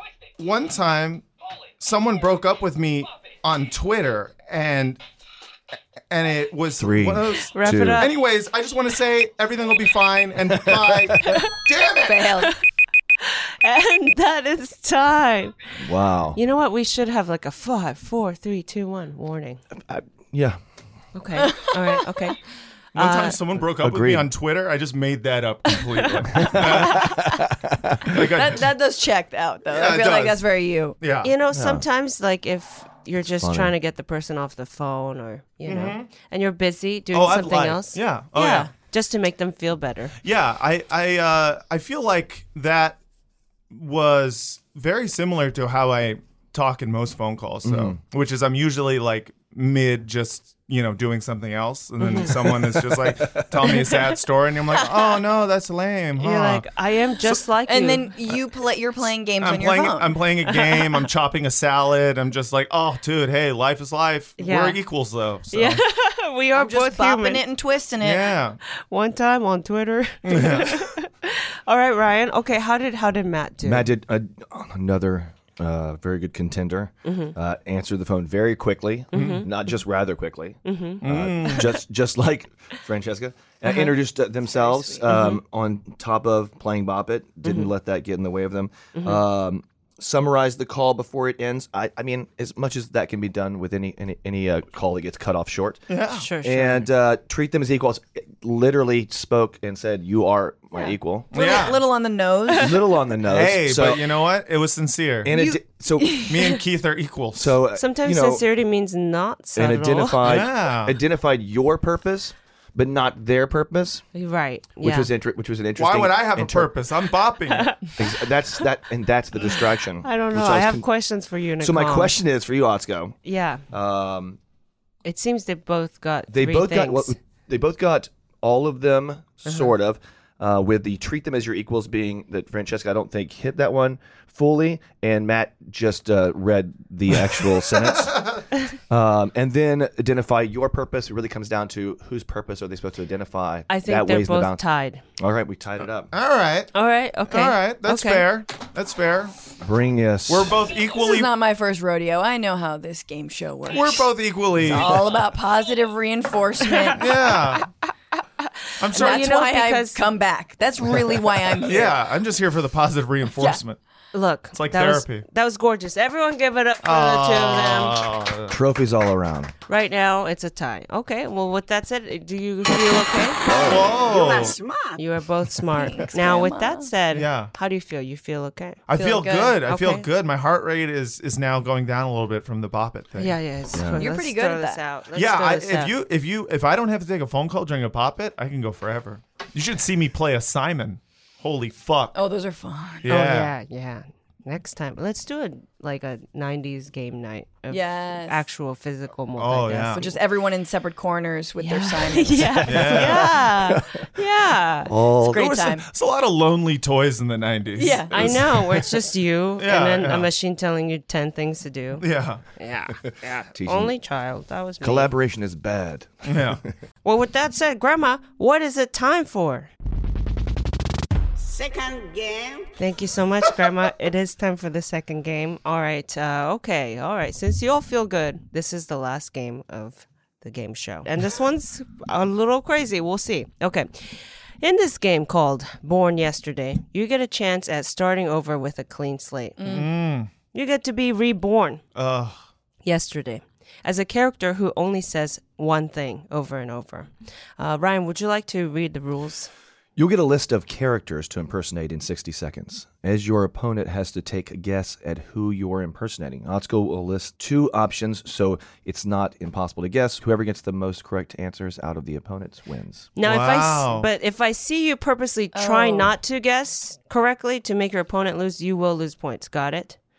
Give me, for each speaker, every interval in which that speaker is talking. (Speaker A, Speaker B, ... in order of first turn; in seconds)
Speaker A: 0.4-1.2, 1.8-5.0, 6.1-12.4, 22.9-27.2, 28.1-28.6, 29.7-30.4, 31.0-31.3, 35.6-36.1, 37.1-38.7, 40.2-43.0, 43.7-56.6, 59.4-65.8, 68.0-68.6, 70.2-70.9, 79.1-79.5, 81.0-81.8, 95.9-96.3, 101.3-101.8, 103.2-105.3, 106.2-107.6, 110.2-111.0, 115.8-117.8, 137.8-138.4, 146.1-146.7, 147.3-149.4, 150.3-151.3, 153.7-155.1, 157.0-157.7, 158.8-159.3, 161.6-163.8, 164.5-165.2, 166.8-168.6, 173.6-174.6, 177.1-177.5, 178.9-183.4, 185.1-192.2, 193.0-193.5, 199.4-200.1, 202.6-203.4, 205.3-208.3, 209.6-210.3, 212.0-212.4, 216.2-216.6, 239.6-240.3, 241.9-242.4, 263.2-264.1
Speaker B: 6.8-8.1, 10.5-11.4, 15.8-16.4, 19.7-20.6, 23.7-24.3, 26.3-28.2, 31.5-31.8, 33.4-33.7, 47.6-48.0, 52.2-53.8, 73.6-95.8, 96.4-101.3, 102.6-104.0, 105.2-106.2, 107.3-108.4, 109.5-114.1, 114.8-116.7, 118.0-120.8, 121.6-123.2, 123.7-124.4, 126.3-144.6, 145.2-146.1, 149.6-150.6, 168.5-169.5, 173.4-174.0, 183.7-184.0, 202.4-204.1, 204.8-205.5, 208.1-208.8, 213.5-213.9, 214.8-216.7, 249.9-263.1
Speaker C: 7.5-8.1, 13.2-15.8, 16.3-19.6, 21.1-22.4, 22.9-23.4, 25.9-27.2, 31.2-40.1, 52.0-52.3, 56.2-58.1, 60.5-61.0, 64.4-64.8, 65.5-67.4, 68.9-73.9, 77.0-77.3, 79.1-79.5, 80.6-81.0, 85.1-85.4, 87.4-87.7, 88.9-89.2, 96.1-96.9, 107.7-110.2, 114.1-115.1, 117.5-118.2, 120.0-122.2, 123.2-123.6, 125.0-127.1, 143.7-145.0, 146.7-148.2, 158.9-160.1, 164.1-168.0, 169.7-173.4, 175.0-178.8, 179.6-180.1, 183.2-185.9, 193.0-200.2, 201.6-204.9, 208.1-212.0, 212.6-215.1, 217.0-219.7, 222.8-239.6, 240.5-241.8, 242.8-249.5, 263.1-270.0
Speaker D: 12.0-12.5, 21.4-22.2, 28.1-31.0, 54.7-55.2, 57.7-60.2, 66.5-68.3, 84.4-85.1, 100.7-102.9, 105.3-106.5, 150.9-157.3, 158.9-161.9, 175.7-176.9, 178.9-179.6, 183.9-184.8, 192.1-193.1, 197.7-198.4, 199.9-203.1, 205.2-205.9, 207.8-208.3, 239.6-239.9, 265.5-266.1
Speaker E: 173.6-175.0, 221.4-222.7